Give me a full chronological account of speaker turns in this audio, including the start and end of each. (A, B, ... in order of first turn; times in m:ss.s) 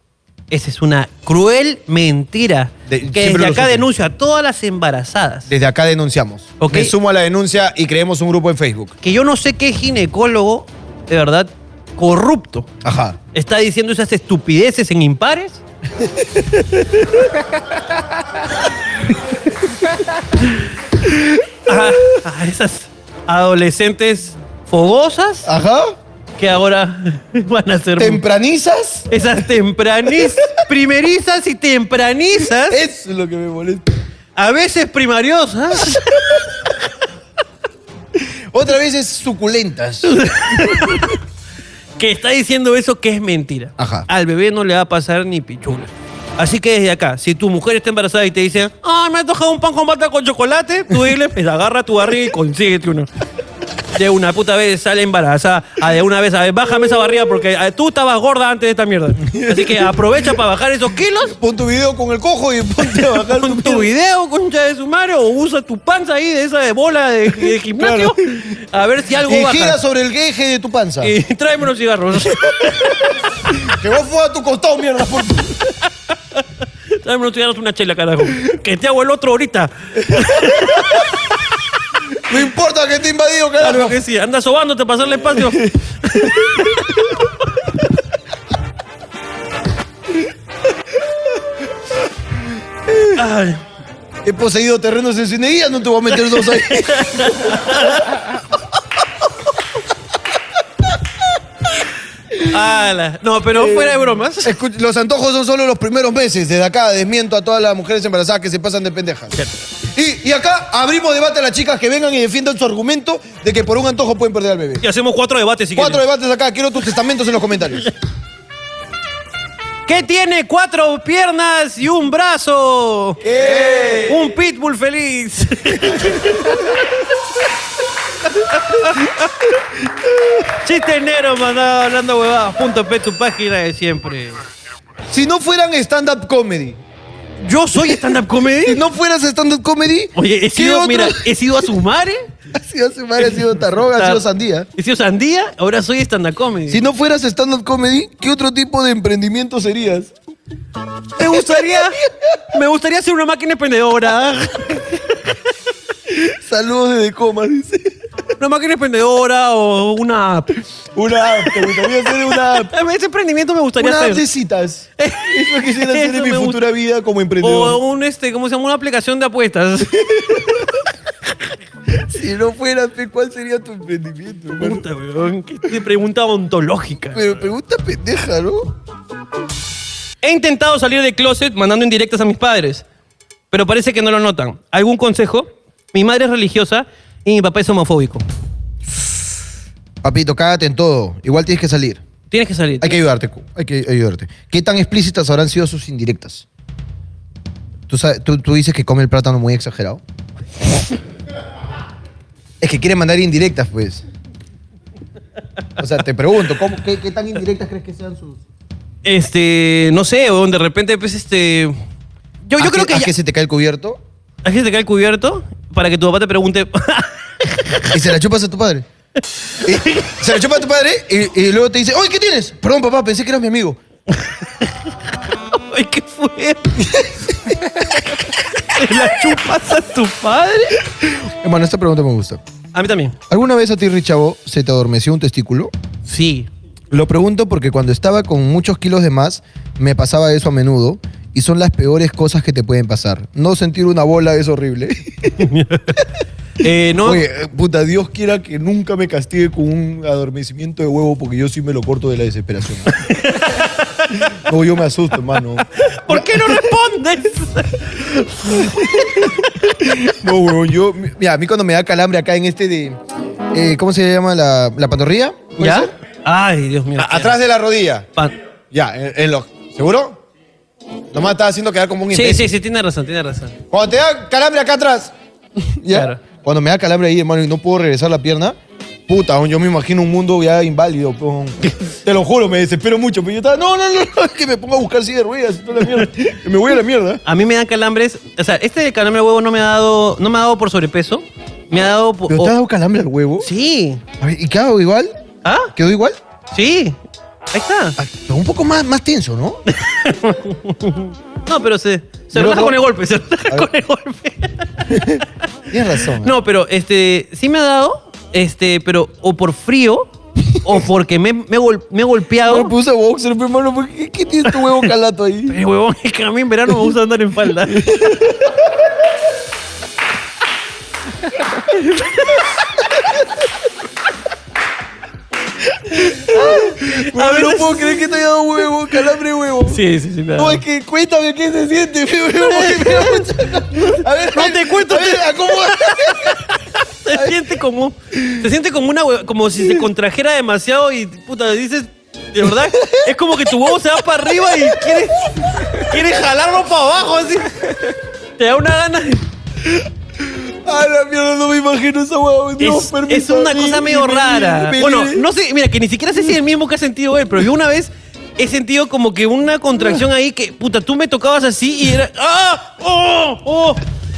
0:00.5-0:05.5 A
0:02.9-0:03.9 B
0:05.5-0:08.9 B
0:06.6-0:06.9 A
0:09.0-0:12.7 A
0:12.8-0:13.2 B
0:13.3-0:15.6 A
0:21.7-0:25.5 A
0:25.4-0:26.0 B
0:26.4-0:28.2 A
0:28.0-0:29.1 B
0:29.1-0:32.8 A
0:32.7-0:33.8 B
0:34.4-0:36.4 A
0:38.5-0:40.8 B
0:40.0-0:41.2 A
0:42.0-0:53.1 A
0:43.8-0:44.0 B
0:53.9-1:01.3 A
0:59.2-1:00.0 B
1:01.3-1:03.9 B
1:02.8-1:09.8 A
1:07.8-1:08.1 B
1:09.2-1:11.1 B
1:11.0-1:13.1 A
1:12.3-1:13.0 B
1:13.6-1:15.7 B
1:17.0-1:21.1 A
1:20.0-1:21.0 B
1:22.3-1:24.0 B
1:23.6-1:27.1 A
1:26.2-1:26.7 B
1:32.9-1:33.2 B
1:33.1-1:33.6 A
1:34.2-1:37.7 B
1:36.2-1:38.2 A
1:42.4-1:44.5 A
1:43.5-1:49.3 B
1:49.9-1:54.8 B
1:54.8-1:56.0 A
1:55.8-1:57.9 B
1:59.9-2:06.8 A
2:03.2-2:04.2 B
2:08.5-2:09.3 A
2:10.6-2:14.4 A
2:15.1-2:16.8 B
2:17.4-2:18.8 A
2:18.6-2:21.2 B
2:20.2-2:22.3 A
2:22.5-2:24.7 B
2:23.2-2:24.2 A
2:24.8-2:26.8 A
2:26.7-2:30.1 B
2:31.2-2:32.0 A
2:31.3-2:32.4 B
2:32.5-2:35.0 A
2:36.1-2:37.9 B
2:38.4-2:40.6 A
2:41.0-2:42.7 B
2:41.4-2:44.2 A
2:43.8-2:47.8 B
2:45.0-2:46.6 A
2:47.4-2:50.5 A
2:50.1-2:50.6 B
2:52.1-2:54.8 B
2:54.6-2:57.3 A
2:57.1-2:58.7 B
3:00.2-3:02.8 A
3:03.5-3:08.2 A
3:10.0-3:12.0 B
3:12.3-3:13.0 A
3:12.8-3:16.4 B
3:17.9-3:20.0 B
3:22.6-3:24.0 B
3:25.8-3:28.4 B
3:29.0-3:31.7 A
3:32.4-3:33.1 A
3:32.6-3:34.0 B
3:34.4-3:37.9 A
3:37.9-3:38.8 B
3:39.6-3:43.8 B
3:39.7-3:40.1 A
3:45.5-3:46.8 A
3:46.8-3:47.6 B
3:48.7-3:50.8 A
3:51.1-3:52.4 B
3:52.7-3:53.2 A
3:53.3-3:55.7 B
3:56.0-3:56.5 A
3:56.9-4:05.4 B
4:05.4-4:06.0 A
4:06.6-4:07.2 A
4:07.0-4:13.0 B
4:13.0-4:14.2 A
4:14.4-4:16.6 B
4:15.8-4:19.3 A
4:18.5-4:23.0 B
4:23.5-4:25.9 B
4:25.6-4:27.4 A
4:27.0-4:28.1 B
4:28.7-4:30.2 B
4:31.1-4:32.5 B
4:32.1-4:33.6 A
4:33.7-4:38.6 B
4:35.9-4:36.2 A
4:39.1-4:47.2 B
4:47.2-4:52.5 A
4:52.3-4:53.5 B
4:53.4-4:54.0 A
4:54.2-4:55.1 B
4:55.4-4:55.7 A
4:55.7-4:56.2 B
4:56.5-4:57.0 A
4:57.5-4:58.0 A
4:58.0-4:59.6 B
4:59.7-5:05.1 A
5:02.3-5:02.8 B
5:04.9-5:06.3 B
5:06.2-5:10.1 A
5:10.6-5:12.7 A
5:12.4-5:15.6 B
5:14.5-5:14.9 A
5:15.5-5:17.8 A
5:17.7-5:18.7 B
5:25.8-5:29.8 B
5:26.1-5:28.0 A
5:29.7-5:30.6 A
5:30.4-5:36.4 B
5:32.4-5:47.8 A
5:38.1-5:38.4 B
5:42.7-5:43.1 B
5:44.4-5:44.9 B
5:48.4-5:49.2 A
5:49.7-5:55.2 B
5:52.6-6:03.8 A